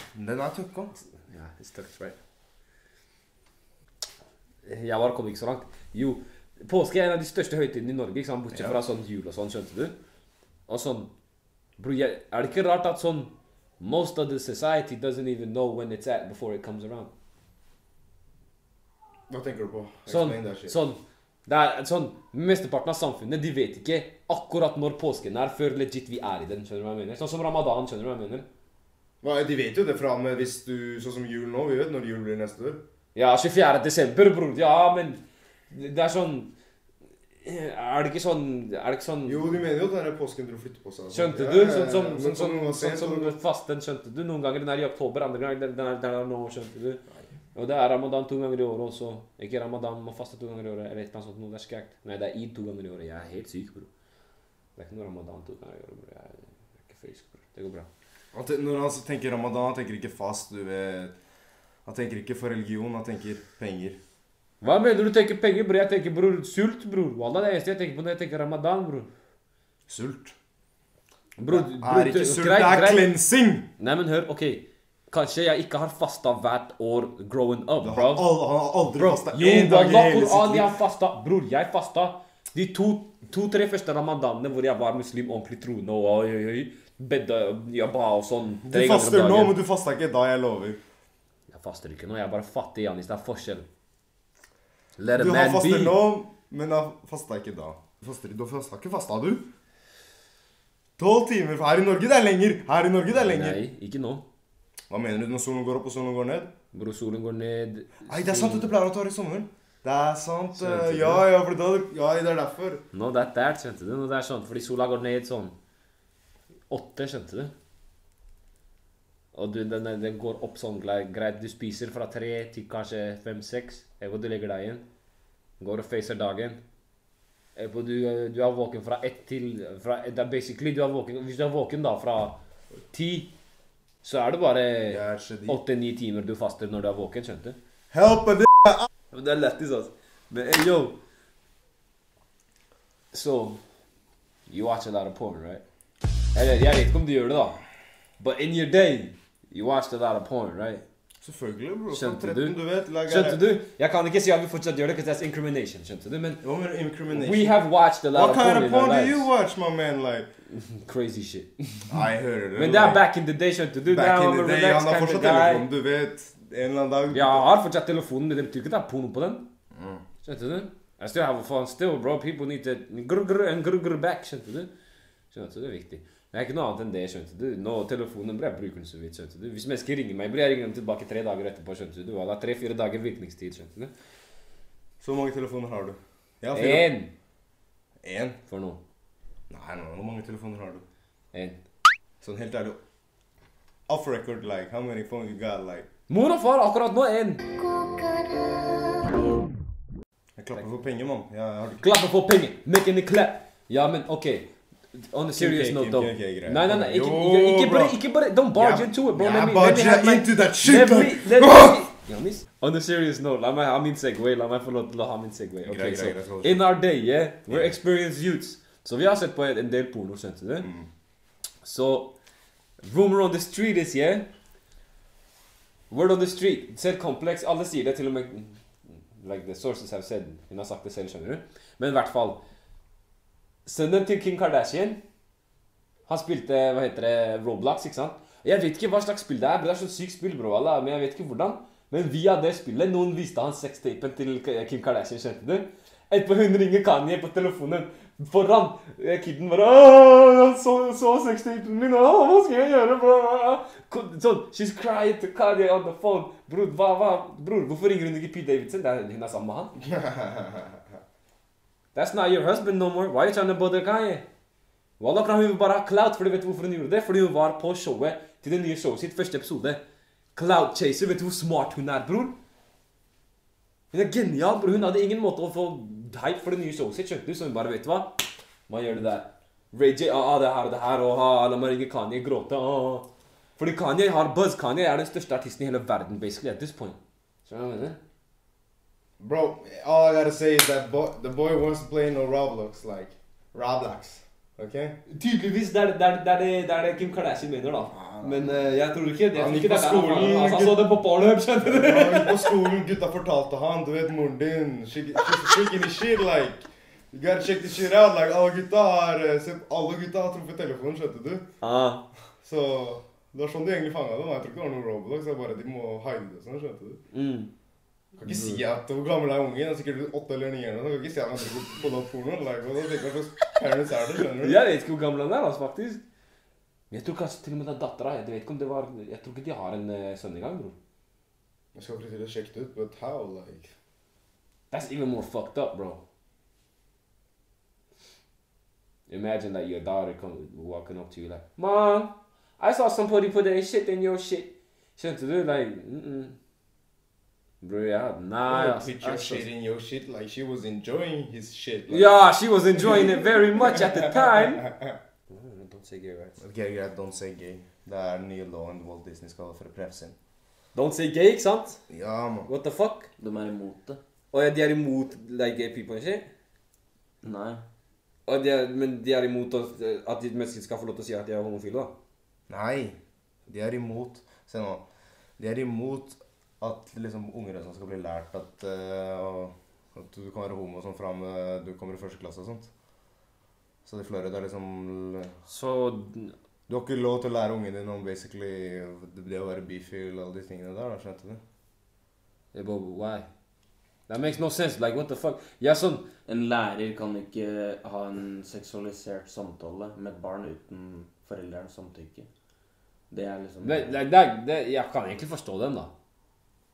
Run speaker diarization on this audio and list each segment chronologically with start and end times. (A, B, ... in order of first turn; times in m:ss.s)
0:00.2-0:00.9 A
0:01.1-0:02.2 B
0:04.6-0:10.0 B
0:08.5-0:08.8 A
0:10.7-0:11.1 B
0:11.8-0:17.1 B
0:19.3-0:20.8 A
0:20.1-0:28.5 B
0:29.2-0:32.8 A
0:33.2-0:36.5 B
0:37.4-0:39.5 B
0:39.3-0:43.4 A
0:41.1-0:47.0 B
0:47.6-0:53.9 B
0:54.8-0:57.9 B
0:58.3-1:01.1 A
1:01.9-1:04.0 A
1:04.6-1:09.1 B
1:09.9-1:10.4 A
1:11.4-1:13.1 B
1:11.5-1:13.7 A
1:13.8-1:18.3 B
1:17.8-1:20.7 A
1:18.9-1:29.6 B
1:28.6-1:30.8 A
1:31.5-1:33.6 B
1:35.0-1:36.0 B
1:35.2-1:39.4 A
1:41.0-1:43.6 A
1:43.1-1:44.2 B
1:44.9-1:46.5 A
1:46.7-1:48.7 B
1:48.1-1:52.8 A
1:50.6-1:51.3 B
1:52.9-1:55.6 B
1:56.7-1:57.5 B
1:59.3-2:04.8 B
2:05.6-2:06.6 B
2:07.6-2:12.4 B
2:12.9-2:13.3 B
2:14.0-2:17.6 B
2:14.9-2:15.6 A
2:17.9-2:18.8 A
2:19.1-2:21.0 B
2:23.1-2:23.6 B
2:24.5-2:25.6 B
2:26.3-2:27.6 B
2:28.2-2:30.8 B
2:31.2-2:33.4 A
2:31.9-2:36.4 B
2:36.4-2:37.6 A
2:37.1-2:39.3 B
2:38.2-2:40.3 A
2:40.5-2:41.9 B
2:41.9-2:43.0 A
2:42.6-2:45.7 B
2:43.9-2:47.5 A
2:47.1-2:49.5 B
2:49.8-2:50.0 A
2:50.2-2:54.7 B
2:55.3-3:03.9 B
3:05.0-3:06.9 A
3:06.5-3:07.1 B
3:08.0-3:08.4 A
3:08.5-3:08.8 B
3:09.5-3:10.8 A
3:11.3-3:11.6 B
3:12.2-3:12.8 A
3:13.9-3:15.9 A
3:16.1-3:17.4 B
3:17.6-3:19.5 C
3:20.4-3:21.8 A
3:21.8-3:40.7 B
3:25.4-3:28.0 A
3:28.5-3:31.8 A
3:35.6-3:36.7 A
3:37.5-3:37.7 A
3:40.6-3:40.9 A
3:41.6-3:42.1 B
3:42.8-3:44.3 B
3:45.9-3:48.6 B
3:49.1-3:52.4 B
3:53.7-3:55.0 B
3:56.1-4:19.8 B
4:19.8-4:20.8 A
4:22.0-4:24.2 B
4:25.0-4:29.8 B
4:30.4-4:32.4 B
4:33.9-4:38.2 B
4:38.7-4:48.0 B
4:49.2-4:55.0 A
4:55.1-5:02.6 B
4:57.9-4:58.6 A
4:59.3-5:00.9 A
5:01.6-5:11.5 A
5:11.6-5:12.1 B
5:12.4-5:17.0 A
5:17.1-5:17.5 B
5:18.2-5:24.6 A
5:18.2-5:18.6 B
5:24.3-5:26.0 B
5:26.9-5:30.8 B
5:31.8-5:33.7 A
5:34.7-5:36.0 B
5:39.1-5:46.4 B
5:47.6-5:49.5 B
5:48.5-5:52.1 A
5:51.9-5:54.7 B
5:52.7-5:55.0 A
5:55.3-5:56.4 B
5:56.4-6:00.2 A
6:00.7-6:01.8 B
6:01.9-6:02.5 A
6:02.5-6:03.1 B
6:03.2-6:04.0 C
6:04.3-6:06.3 B
6:07.2-6:07.6 C
6:08.3-6:11.9 B
6:12.5-6:13.0 A
6:13.5-6:14.8 A
6:15.4-6:22.7 A
6:23.9-6:25.3 A
6:25.5-6:26.3 B
6:26.7-6:31.4 A
6:32.5-6:33.3 B
6:34.1-6:36.1 B
6:36.3-6:42.3 C
6:43.1-6:44.0 C
6:43.6-6:45.9 B